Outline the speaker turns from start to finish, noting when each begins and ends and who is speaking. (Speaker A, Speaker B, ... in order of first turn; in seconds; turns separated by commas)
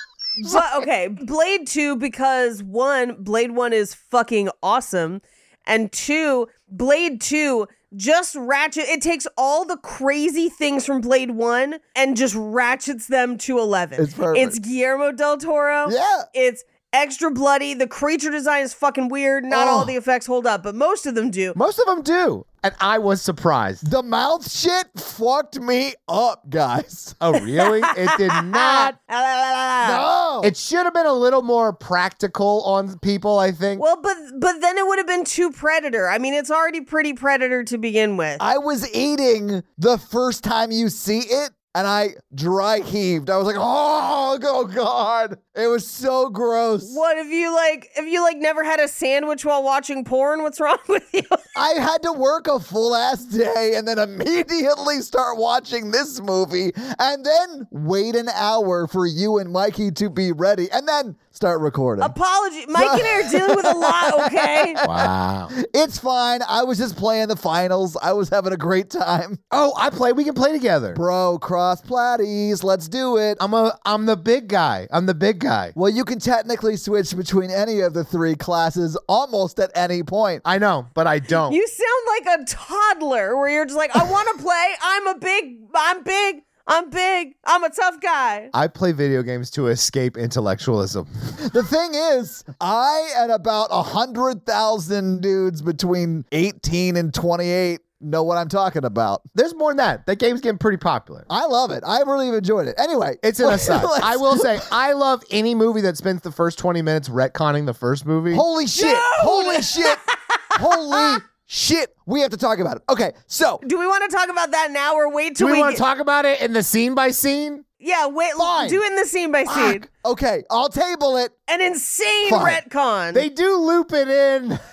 Speaker A: 0.5-21.6, Speaker B: 14.0-14.6, Speaker B: 15.8-16.3, Speaker B: 19.5-19.9, Speaker C: 21.5-23.9, Speaker B: 23.8-27.2, Speaker C: 27.2-28.9, Speaker A: 27.6-30.1, Speaker B: 29.8-30.5, Speaker C: 30.4-33.8, Speaker A: 33.8-38.4, Speaker B: 38.4-47.0, Speaker A: 46.8-51.5, Speaker B: 51.5-62.1, Speaker A: 62.0-64.8, Speaker B: 62.7-69.4, Speaker C: 64.8-65.5, Speaker C: 69.5-71.0, Speaker B: 70.9-73.4, Speaker C: 73.4-75.7, Speaker B: 75.7-80.4, Speaker C: 80.4-81.6, Speaker A: 81.4-88.5, Speaker C: 88.5-91.1, Speaker B: 91.4-99.2, Speaker C: 99.3-101.3, Speaker B: 101.3-104.7, Speaker C: 103.2-108.4, Speaker B: 108.3-110.0, Speaker A: 108.7-111.2, Speaker B: 110.5-113.6, Speaker A: 113.6-115.8, Speaker C: 115.4-117.6, Speaker A: 117.8-119.8, Speaker B: 118.4-118.8, Speaker B: 119.5-121.3, Speaker A: 121.5-123.2, Speaker B: 122.2-122.6, Speaker C: 123.1-124.6